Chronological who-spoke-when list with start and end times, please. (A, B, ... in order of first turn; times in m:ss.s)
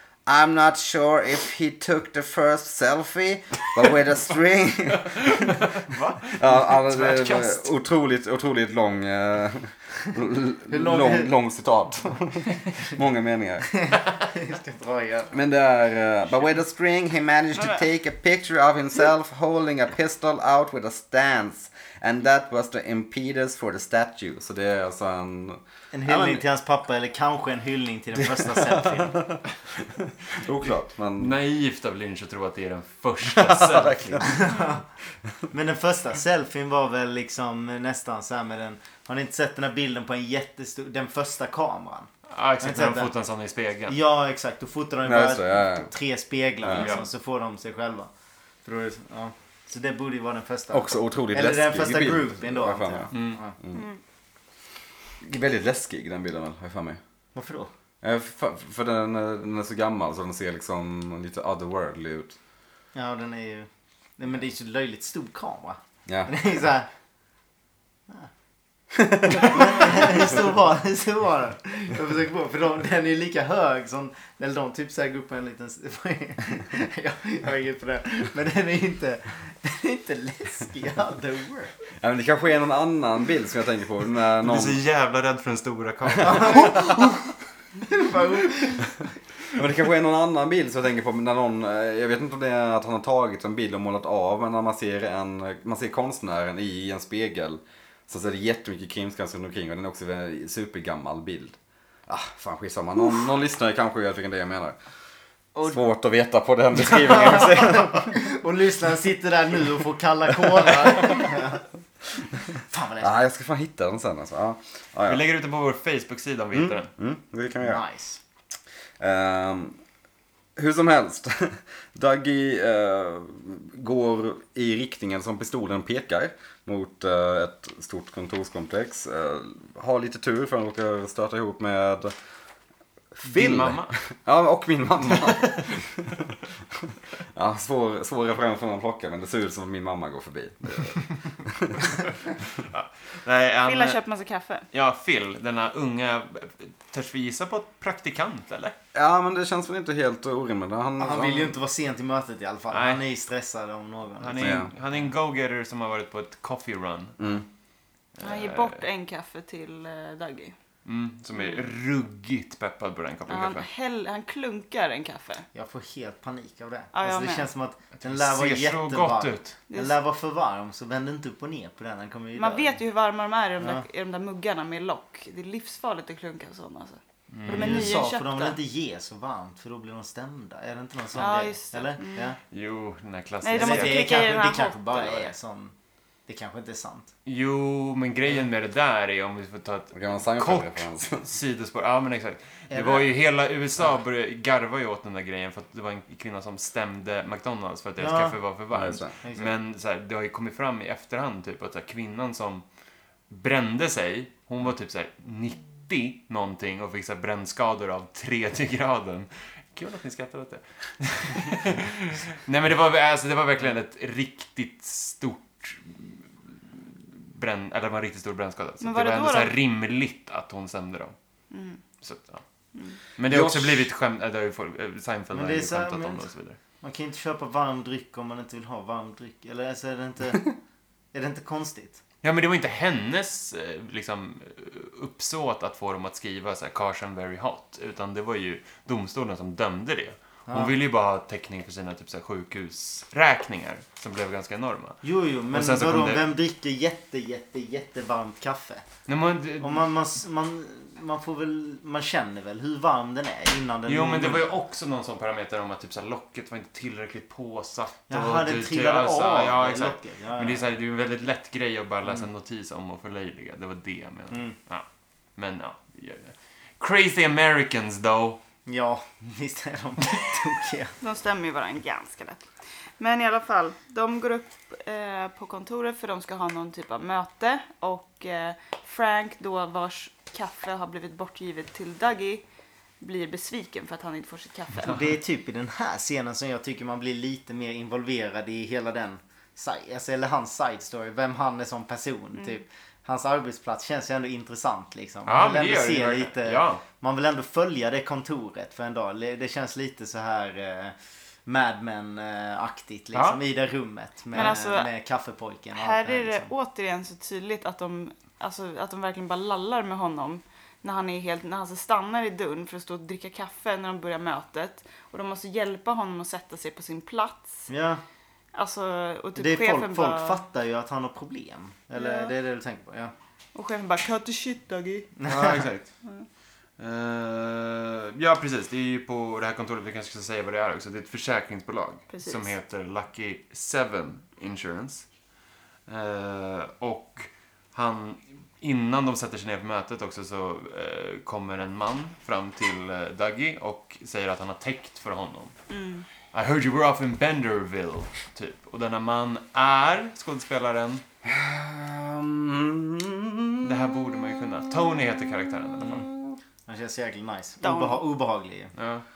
0:00.2-0:05.6 A
0:05.0-0:07.7 B
0:06.3-0:13.7 A
0:10.7-0:11.3 C
0:13.7-0:15.3 C
0:15.3-0:26.4 A
0:25.9-0:29.2 C
0:28.4-0:31.4 A
0:31.1-0:34.3 B
0:33.2-0:34.4 A
0:34.2-0:34.8 C
0:35.5-0:43.1 C
0:42.3-0:44.0 B
0:43.9-0:48.1 C
0:45.0-0:45.9 A
0:46.6-0:46.9 A
0:46.7-0:47.0 B
0:48.6-0:53.6 C
0:50.7-0:53.8 A
0:53.1-0:53.4 B
0:53.7-0:54.0 D
0:55.2-0:57.0 A
0:57.3-0:57.7 C
0:58.0-1:02.4 A
1:02.9-1:06.9 C
1:09.0-1:09.5 A
1:09.4-1:21.7 C
1:22.0-1:24.8 A
1:24.4-1:27.2 B
1:26.2-1:26.5 A
1:26.2-1:27.0 C
1:27.8-1:28.9 C
1:29.5-1:41.6 A
1:42.1-1:44.8 A
1:45.6-1:48.1 A
1:47.4-1:51.6 C
1:52.7-1:53.2 C
1:53.0-1:55.2 A
1:55.1-1:56.9 B
1:56.5-1:57.8 A
1:57.6-1:58.2 C
1:59.0-1:59.8 A
2:00.6-2:12.1 A
2:13.1-2:21.8 A
2:13.2-2:14.0 B
2:15.3-2:15.6 B
2:22.1-2:24.0 B
2:23.6-2:24.6 D
2:24.7-2:28.8 B
2:28.9-2:31.5 A
2:31.0-2:34.7 C
2:32.7-2:33.0 B
2:34.2-2:37.2 B
2:34.4-2:34.7 A
2:37.2-2:37.4 A
2:38.1-2:38.8 B
2:38.2-2:40.5 D
2:40.8-2:43.6 B
2:43.3-2:45.4 D
2:45.5-2:52.8 C
2:46.9-2:47.5 D
2:48.0-2:49.6 B
2:49.7-2:50.0 D
2:52.4-2:58.6 D
2:53.6-2:53.8 C
2:57.3-2:58.0 B
2:57.5-3:02.4 C
3:01.1-3:02.2 D
3:02.5-3:04.0 B
3:03.4-3:05.3 D
3:03.5-3:05.7 C
3:06.3-3:07.1 C
3:07.2-3:22.6 B
3:09.9-3:11.2 A
3:12.7-3:13.1 C
3:18.0-3:18.4 C
3:18.7-3:19.1 A
3:19.2-3:19.5 C
3:23.3-3:41.1 B
3:38.8-3:39.5 D
3:41.5-3:41.8 D
3:42.0-3:42.4 B
3:43.2-3:46.6 B
3:43.3-3:43.8 A
3:45.3-3:46.2 C
3:46.8-3:50.5 C
3:51.1-3:52.0 C
3:52.2-4:05.0 B
4:05.0-4:08.8 C
4:05.5-4:06.2 B
4:09.1-4:09.8 B
4:09.6-4:14.5 C
4:13.8-4:24.8 B
4:18.1-4:20.7 C
4:25.4-4:28.4 B
4:28.6-4:30.9 C
4:31.0-4:42.4 D
4:43.0-4:45.1 D
4:44.8-5:06.5 C
4:55.2-4:56.8 B
5:03.1-5:03.4 B
5:04.3-5:04.9 D
5:05.7-5:17.7 D
5:17.7-5:18.0 C
5:18.5-5:20.4 D
5:19.4-5:23.1 C
5:21.9-5:22.3 D
5:23.5-5:25.1 D
5:25.2-5:25.6 C
5:25.2-5:25.9 B
5:26.8-5:35.0 B
5:32.1-5:32.5 D
5:35.9-5:45.5 B
5:45.7-5:46.0 D
5:46.3-5:51.0 B
5:51.2-5:53.9 A
5:53.6-5:56.1 B
5:55.8-5:56.3 A
5:56.7-5:58.7 C
5:57.6-5:58.0 D
5:58.8-5:59.0 B